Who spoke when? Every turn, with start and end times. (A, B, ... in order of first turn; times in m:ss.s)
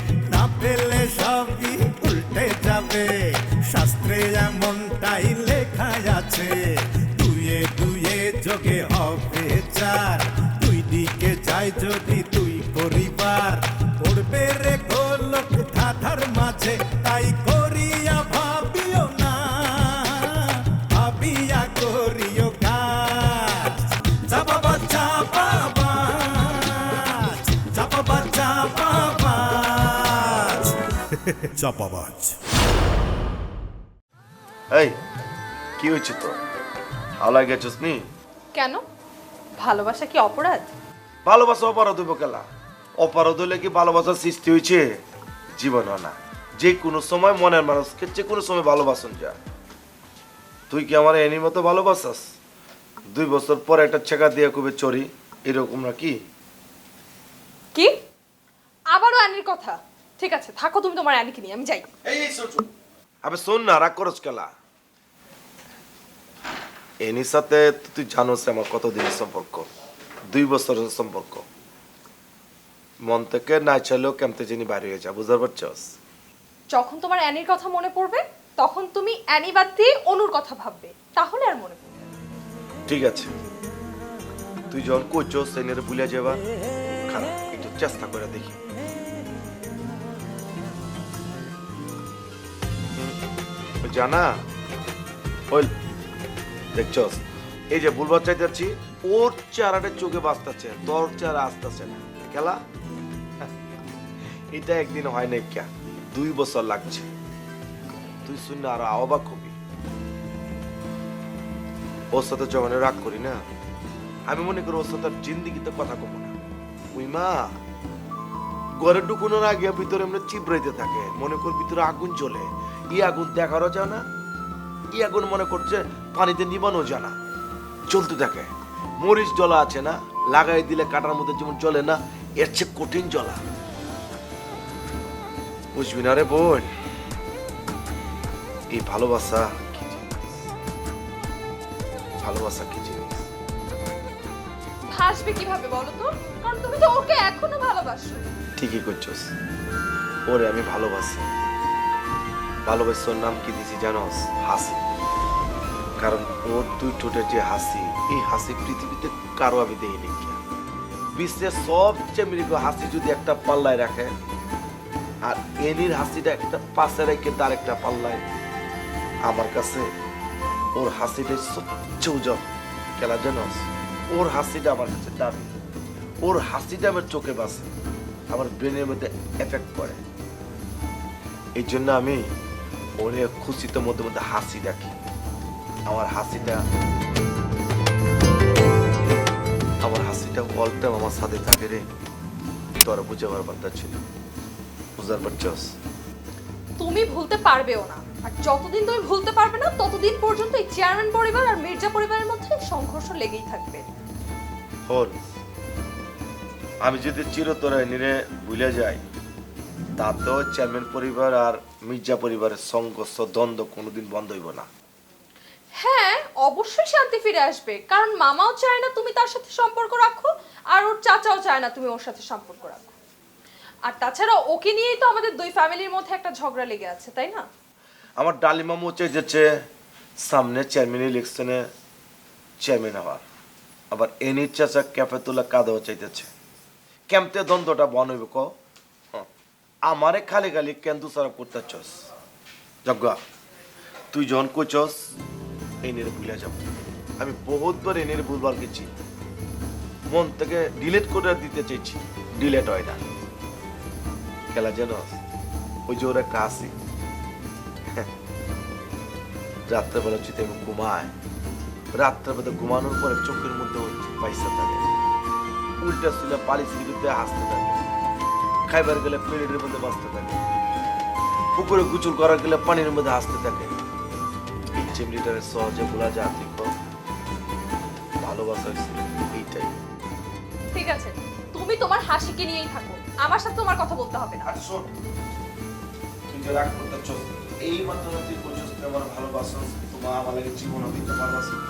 0:00.3-0:32.3 A
0:35.8-0:36.4 B
0:37.2-0:38.0 B
0:38.6-0:38.8 C
0:39.6-0:40.7 C
0:41.2-0:42.4 B
0:43.0-0:44.8 B
0:45.6-0:49.3 B
0:50.7-0:52.2 B
0:53.0-0:56.2 B
0:58.9-1:01.9 C
1:02.0-1:02.7 B
1:03.2-1:04.5 B
1:07.0-1:09.7 B
1:10.3-1:11.4 B
1:13.0-1:15.9 B
1:16.7-1:22.0 C
1:22.9-1:23.3 B
1:24.7-1:26.4 B
1:27.1-1:28.6 B
1:33.8-1:34.3 B
1:36.8-1:42.6 B
1:44.5-1:47.1 B
1:48.3-1:49.6 B
1:52.1-1:53.4 B
1:54.3-1:56.3 B
1:57.0-1:57.5 B
1:58.8-2:04.0 B
2:04.9-2:07.1 B
2:07.9-2:13.4 B
2:15.8-2:16.7 B
2:18.7-2:20.4 B
2:22.2-2:23.3 B
2:24.9-2:28.2 C
2:28.6-2:29.3 B
2:30.3-2:31.2 B
2:32.6-2:34.8 B
2:36.0-2:40.4 B
2:41.1-2:44.1 B
2:45.2-2:48.2 B
2:49.2-2:49.9 B
2:50.8-2:52.4 B
2:53.0-2:55.5 B
2:56.2-2:57.7 B
2:58.3-3:00.0 B
3:01.6-3:02.2 B
3:03.0-3:04.9 B
3:05.9-3:06.6 B
3:09.8-3:11.8 B
3:12.8-3:14.0 B
3:15.0-3:15.7 B
3:16.8-3:23.8 C
3:24.9-3:25.2 B
3:26.8-3:29.0 B
3:30.0-3:34.7 B
3:35.8-3:42.9 C
3:43.8-3:47.4 C
3:48.2-3:49.4 B
3:50.2-3:51.6 B
3:52.6-3:53.2 B
3:53.9-3:56.3 B
3:57.1-3:58.5 B
3:59.8-4:02.1 B
4:02.8-4:03.2 B
4:04.1-4:05.1 B
4:05.8-4:06.6 B
4:07.2-4:08.9 B
4:10.1-4:13.0 B
4:14.5-4:15.2 B
4:15.9-4:16.7 B
4:19.7-4:21.1 B
4:21.9-4:24.9 B
4:25.8-4:27.8 B
4:28.7-4:30.4 B
4:31.6-4:33.8 B
4:34.7-4:36.7 B
4:38.2-4:39.8 B
4:40.7-4:44.5 C
4:44.4-4:44.9 B
4:46.3-4:51.6 B